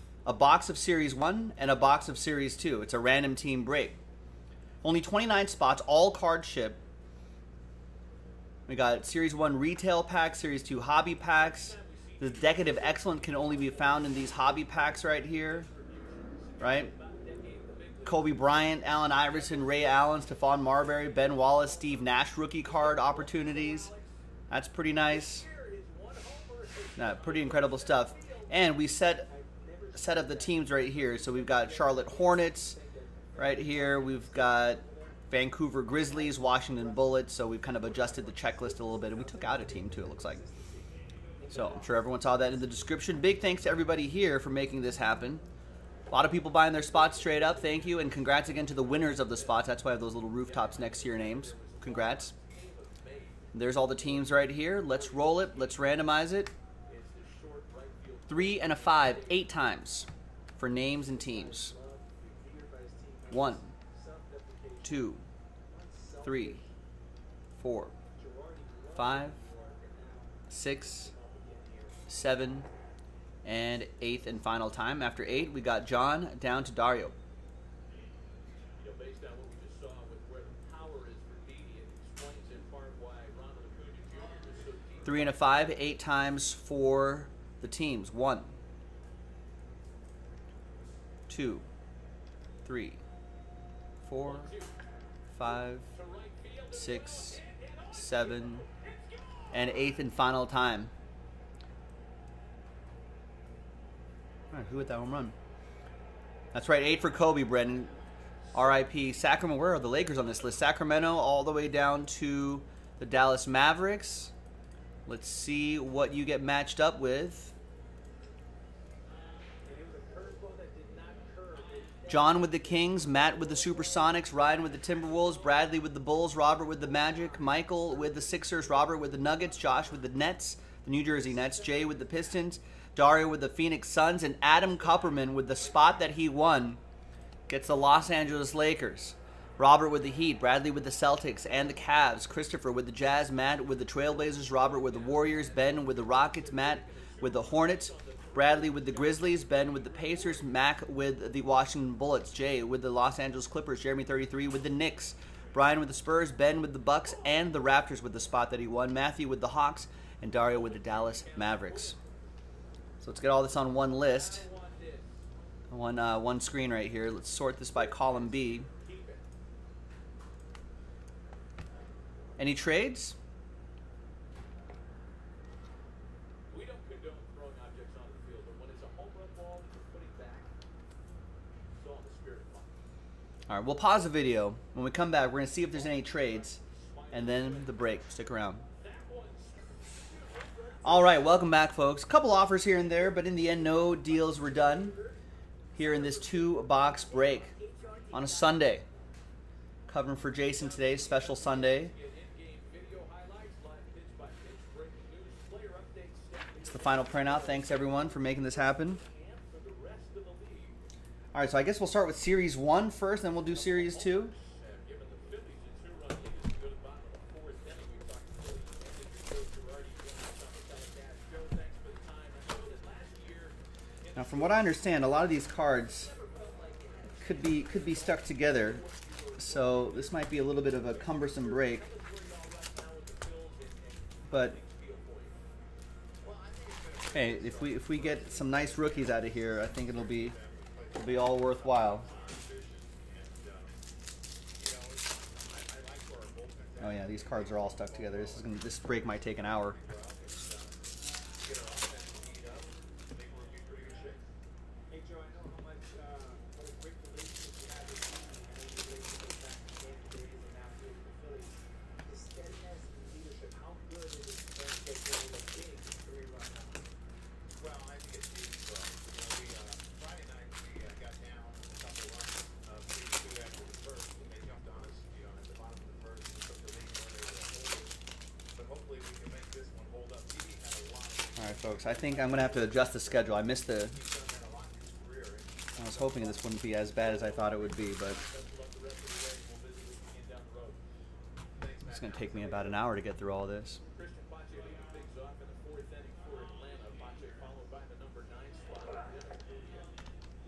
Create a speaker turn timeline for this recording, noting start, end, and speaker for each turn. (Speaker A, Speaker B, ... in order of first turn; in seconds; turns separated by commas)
Speaker A: 0.2-4.0, Speaker A: 4.8-6.8, Speaker A: 8.7-15.7, Speaker B: 11.3-24.2, Speaker A: 16.6-16.9, Speaker A: 18.1-23.9, Speaker A: 24.5-25.5, Speaker B: 25.0-28.7, Speaker A: 27.0-29.3, Speaker C: 29.2-35.2, Speaker A: 29.9-32.8, Speaker A: 33.4-40.4, Speaker C: 35.9-42.9, Speaker A: 41.5-45.4, Speaker A: 46.1-52.3, Speaker B: 46.8-49.7, Speaker B: 50.4-56.0, Speaker A: 53.5-56.5, Speaker B: 56.9-59.5, Speaker A: 58.3-61.7, Speaker C: 60.9-65.1, Speaker A: 63.3-63.7, Speaker A: 64.8-65.3, Speaker C: 65.7-66.7, Speaker A: 66.2-66.6, Speaker A: 67.6-68.0, Speaker C: 68.2-72.0, Speaker A: 69.0-69.4, Speaker A: 70.5-71.1, Speaker A: 72.1-72.7, Speaker A: 73.4-77.2, Speaker B: 78.8-85.8, Speaker A: 85.0-88.6, Speaker A: 91.3-91.7, Speaker A: 92.7-93.0, Speaker A: 94.0-94.5, Speaker B: 94.2-94.8, Speaker A: 95.3-95.9, Speaker B: 95.4-99.7, Speaker A: 96.7-97.4, Speaker A: 97.9-98.7, Speaker A: 99.5-100.9, Speaker A: 104.5-105.4, Speaker A: 106.5-107.9, Speaker A: 108.5-114.3, Speaker A: 115.1-117.5, Speaker C: 119.7-125.7, Speaker A: 122.1-136.8, Speaker C: 126.8-129.2, Speaker C: 131.1-132.2, Speaker B: 134.8-136.4, Speaker A: 137.5-162.0, Speaker B: 144.2-150.5, Speaker B: 157.0-157.6, Speaker B: 160.5-162.1, Speaker A: 163.0-164.4, Speaker B: 163.9-165.2, Speaker A: 165.7-168.7, Speaker B: 167.7-169.2, Speaker A: 172.4-173.2, Speaker B: 176.5-180.5, Speaker B: 181.7-182.8, Speaker A: 183.5-186.6, Speaker B: 185.7-188.1, Speaker A: 187.1-188.6, Speaker B: 188.7-191.5, Speaker A: 190.8-195.0, Speaker C: 193.0-195.2, Speaker A: 195.8-197.5, Speaker A: 198.1-198.8, Speaker A: 199.9-201.9, Speaker B: 200.5-210.8, Speaker A: 206.6-209.0, Speaker A: 211.3-214.3, Speaker B: 213.4-235.4, Speaker A: 224.2-226.1, Speaker A: 227.2-228.8, Speaker A: 229.4-231.9, Speaker A: 234.3-234.6, Speaker D: 236.2-238.8, Speaker A: 237.1-240.3, Speaker D: 239.8-243.7, Speaker A: 240.9-242.1, Speaker D: 245.7-246.1, Speaker A: 246.8-249.8, Speaker D: 251.4-252.6, Speaker D: 253.1-254.2, Speaker C: 254.9-266.8, Speaker D: 267.6-268.2, Speaker D: 269.0-269.7, Speaker D: 270.3-270.7, Speaker D: 271.2-272.7, Speaker D: 275.2-277.4, Speaker D: 278.6-281.3, Speaker A: 281.4-284.0, Speaker D: 284.3-285.4, Speaker A: 285.8-288.2, Speaker B: 286.8-290.8, Speaker A: 291.8-293.8, Speaker B: 293.9-299.9